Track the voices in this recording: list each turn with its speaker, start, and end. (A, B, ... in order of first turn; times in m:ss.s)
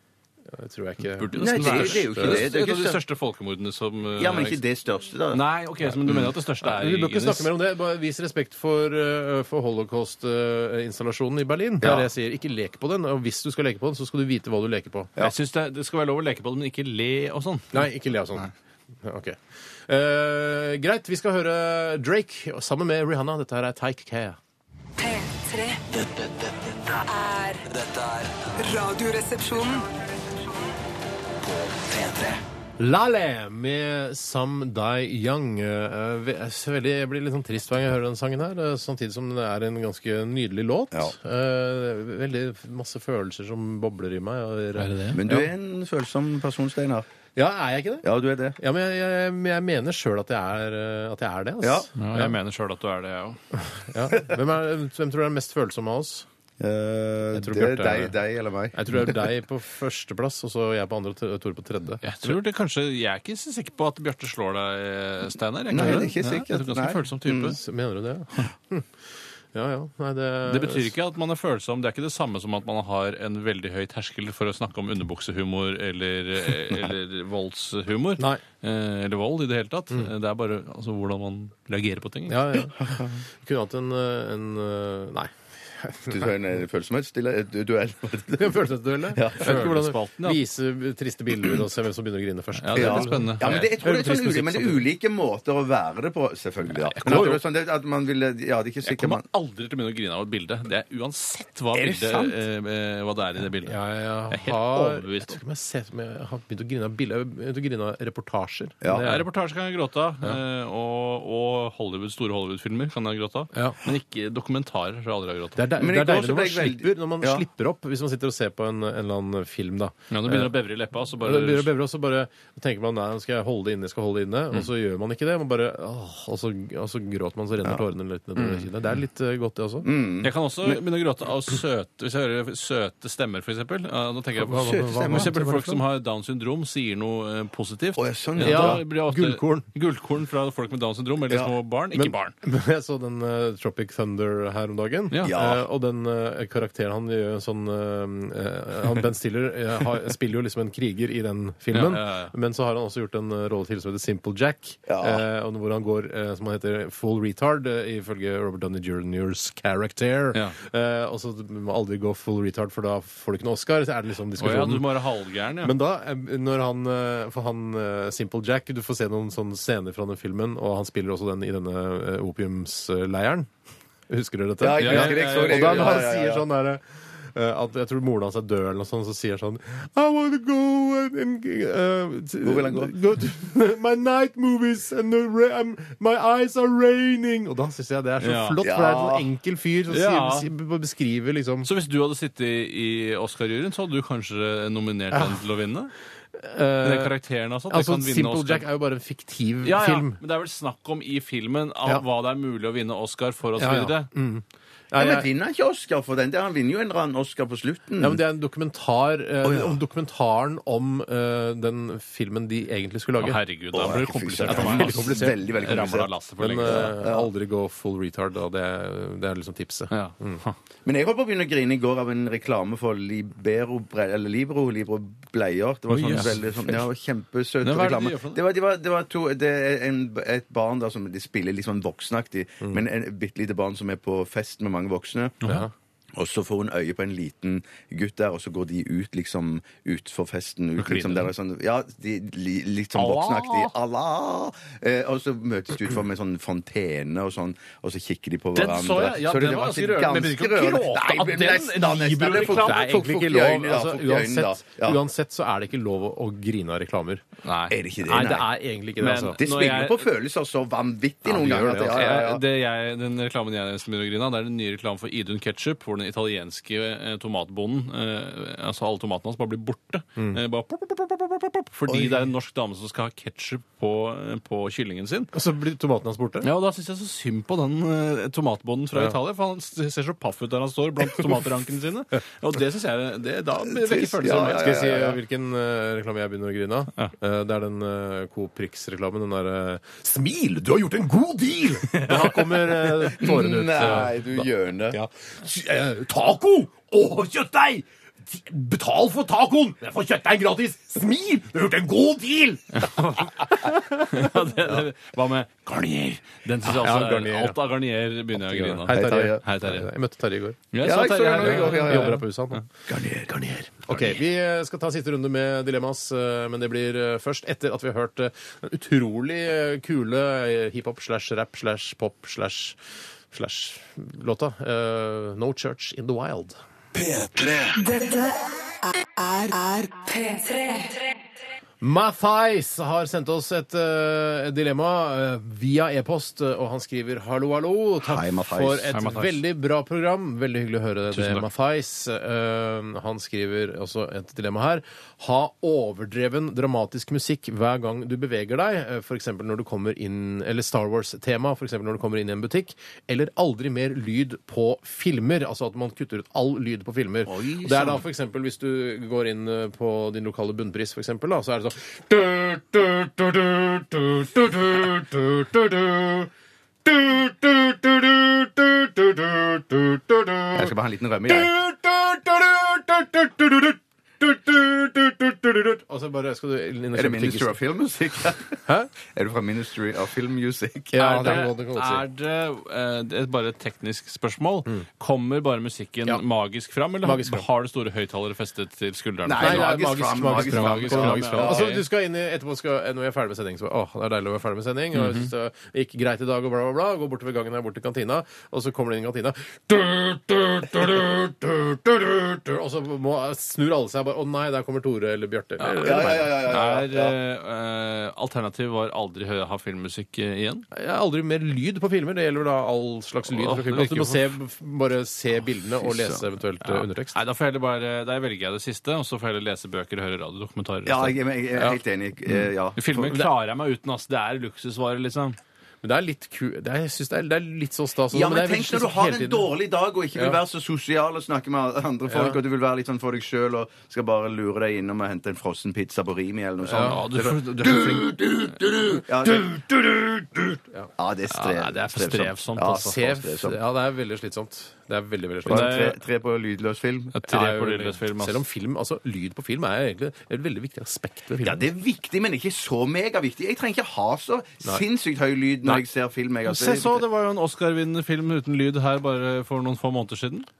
0:00.5-0:02.4 A
0:01.2-0:04.6 B
0:01.3-0:03.0 C
0:04.2-0:05.4 C
0:05.3-0:07.5 B
0:06.0-0:06.3 C
0:06.1-0:15.1 A
0:11.8-0:12.1 C
0:15.2-0:17.8 B
0:17.7-0:18.5 A
0:19.0-0:24.4 A
0:25.0-0:25.8 D
0:25.9-0:27.1 E
0:27.1-0:27.6 D
0:27.6-0:28.7 E
0:28.6-0:29.8 D
0:31.5-0:32.4 E
0:32.8-0:45.5 A
0:44.8-0:45.2 B
0:45.1-0:47.1 C
0:47.4-0:48.1 A
0:48.0-0:48.6 C
0:48.6-0:52.4 A
0:51.6-0:51.9 C
0:52.0-0:53.4 B
0:53.6-0:56.3 A
0:56.6-0:59.2 C
0:57.3-0:58.2 A
0:58.7-1:02.4 A
1:02.0-1:07.6 B
1:05.7-1:07.6 C
1:05.8-1:06.1 A
1:07.5-1:08.9 A
1:09.5-1:10.9 A
1:10.5-1:22.4 B
1:22.3-1:26.3 A
1:22.8-1:23.2 C
1:26.1-1:29.8 C
1:28.4-1:34.8 A
1:29.4-1:30.4 B
1:32.6-1:33.7 B
1:32.7-1:39.2 C
1:36.8-1:37.4 B
1:37.0-1:37.4 A
1:38.8-1:43.8 B
1:41.7-1:42.4 C
1:43.6-1:49.2 A
1:44.3-1:45.4 B
1:48.8-1:49.1 C
1:48.9-1:55.6 B
1:53.5-1:53.8 A
1:55.6-2:00.5 A
1:55.8-1:57.4 C
2:00.1-2:01.7 B
2:01.2-2:09.9 A
2:08.4-2:08.6 B
2:09.8-2:10.8 C
2:10.2-2:22.3 B
2:14.4-2:15.8 A
2:14.6-2:15.4 C
2:18.0-2:18.8 C
2:18.4-2:19.7 A
2:21.9-2:44.9 A
2:25.1-2:25.4 B
2:25.2-2:25.6 C
2:31.7-2:32.3 B
2:34.9-2:35.2 C
2:44.4-2:45.7 B
2:45.6-2:53.5 A
2:54.1-3:11.7 A
2:54.6-2:56.4 C
2:54.8-2:56.1 B
3:02.4-3:02.9 C
3:08.2-3:08.6 B
3:08.6-3:09.3 C
3:09.9-3:10.5 B
3:11.6-3:15.9 B
3:15.1-3:15.4 A
3:16.4-3:17.1 A
3:16.8-3:18.7 B
3:17.7-3:20.2 A
3:19.6-3:24.1 B
3:23.6-3:25.3 A
3:25.0-3:28.2 C
3:28.0-3:33.4 A
3:29.4-3:29.8 C
3:33.2-3:37.0 B
3:33.7-3:36.1 C
3:34.5-3:35.5 A
3:36.4-3:40.4 A
3:36.6-3:37.3 C
3:39.9-3:40.6 B
3:40.9-3:55.4 C
3:45.9-3:46.4 B
3:46.1-3:46.7 A
3:47.6-3:48.4 B
3:55.4-3:55.7 A
3:56.2-4:15.0 C
4:00.8-4:01.3 B
4:03.0-4:03.7 B
4:08.6-4:13.0 B
4:12.3-4:17.2 A
4:17.4-4:17.8 B
4:17.7-4:18.5 C
4:18.0-4:19.4 A
4:19.0-4:20.1 B
4:19.4-4:22.4 C
4:21.3-4:22.1 A
4:21.8-4:35.3 B
4:35.3-4:36.5 A
4:36.4-4:44.9 B
4:43.7-4:45.2 C
4:44.2-5:04.3 A
4:51.9-4:53.0 B
4:53.1-4:55.0 C
4:53.8-4:54.1 B
5:02.8-5:09.9 B
5:06.6-5:07.6 A
5:08.4-5:10.6 A
5:08.9-5:09.4 C
5:10.7-5:12.6 B
5:10.8-5:12.2 C
5:11.4-5:12.6 A
5:12.9-5:14.1 C
5:13.8-5:22.8 A
5:23.3-5:26.6 A
5:27.0-5:27.8 E
5:27.8-5:31.2 D
5:31.8-6:06.3 A
5:38.0-5:38.9 C
5:38.9-5:39.4 B
5:41.1-5:41.5 B
5:57.3-5:58.0 C
6:06.8-6:10.7 A
6:10.6-6:11.5 C
6:11.3-6:17.6 A
6:16.9-6:21.5 C
6:20.9-6:22.0 A
6:21.0-6:31.8 B
6:27.0-6:27.4 A
6:29.2-6:31.8 C
6:29.4-6:46.4 A
6:34.9-6:35.3 B
6:45.6-6:50.7 B
6:45.8-6:47.2 C
6:50.7-6:57.2 A
6:53.3-6:54.3 B
6:55.8-6:56.2 C
6:56.6-7:01.2 B
7:00.9-7:03.3 C
7:02.8-7:05.4 B
7:05.8-7:09.5 A
7:08.1-7:23.6 C
7:12.1-7:12.4 A
7:16.7-7:17.0 A
7:16.7-7:18.3 B
7:21.3-7:23.0 B
7:22.7-7:25.7 A
7:25.5-7:26.0 B
7:25.5-7:27.2 C
7:27.1-7:28.4 B
7:27.3-7:31.7 A
7:31.4-7:37.0 C
7:36.4-7:40.5 B